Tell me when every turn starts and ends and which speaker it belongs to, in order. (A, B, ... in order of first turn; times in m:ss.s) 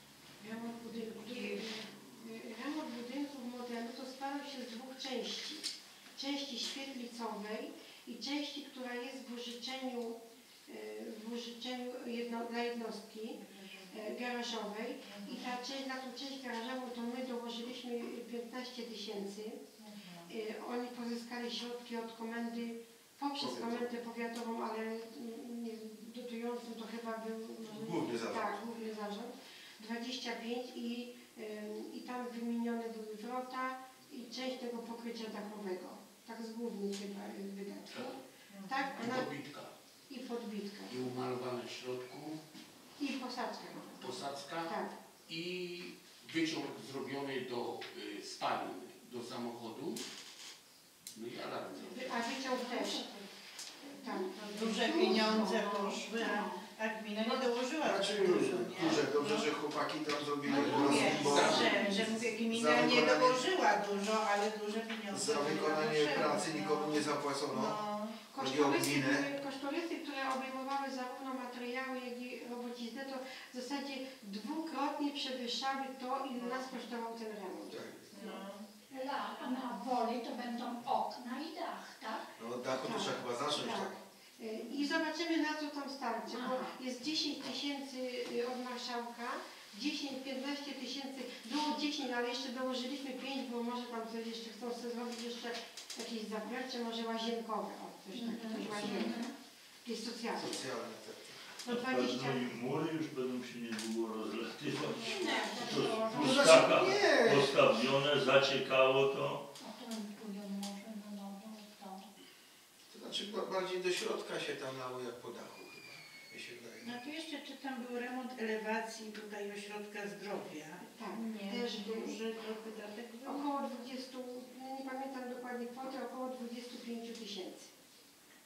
0:00.4-0:19.6 A
0:00.9-0:01.7 B
0:13.4-0:14.0 B
0:15.0-0:15.6 B
0:19.8-0:20.3 B
0:20.3-0:39.3 A
0:23.4-0:23.8 C
0:27.6-0:28.6 C
0:38.5-0:39.0 B
0:38.9-0:39.7 D
0:40.1-0:41.0 A
0:40.9-0:42.4 D
0:43.0-0:44.9 A
0:44.0-0:44.8 D
0:45.3-0:50.0 D
0:51.1-0:52.2 D
0:51.8-0:53.1 A
0:52.4-0:53.3 E
0:53.8-0:56.3 A
0:54.0-0:54.3 E
0:54.4-0:59.5 B
0:54.9-0:55.6 E
0:56.1-0:56.6 E
0:57.2-0:57.5 A
0:57.8-1:01.7 C
1:00.5-1:01.9 D
1:00.5-1:08.2 B
1:00.6-1:02.0 E
1:01.0-1:01.6 A
1:02.5-1:03.4 C
1:05.1-1:07.8 C
1:08.3-1:18.4 A
1:08.4-1:09.3 C
1:16.4-1:16.7 B
1:17.7-1:18.1 C
1:18.1-1:18.7 B
1:18.9-1:22.3 E
1:22.4-1:24.0 C
1:22.8-1:39.2 A
1:26.3-1:26.8 E
1:38.1-1:39.3 E
1:39.8-1:40.6 A
1:40.4-1:41.4 C
1:41.6-1:42.5 A
1:41.7-1:49.4 F
1:44.9-1:46.9 E
1:45.1-1:45.6 B
1:45.1-1:45.5 A
1:46.2-1:47.6 C
1:49.6-1:52.1 E
1:52.9-1:57.1 C
1:56.8-2:03.7 B
2:00.9-2:02.2 A
2:03.3-2:07.7 A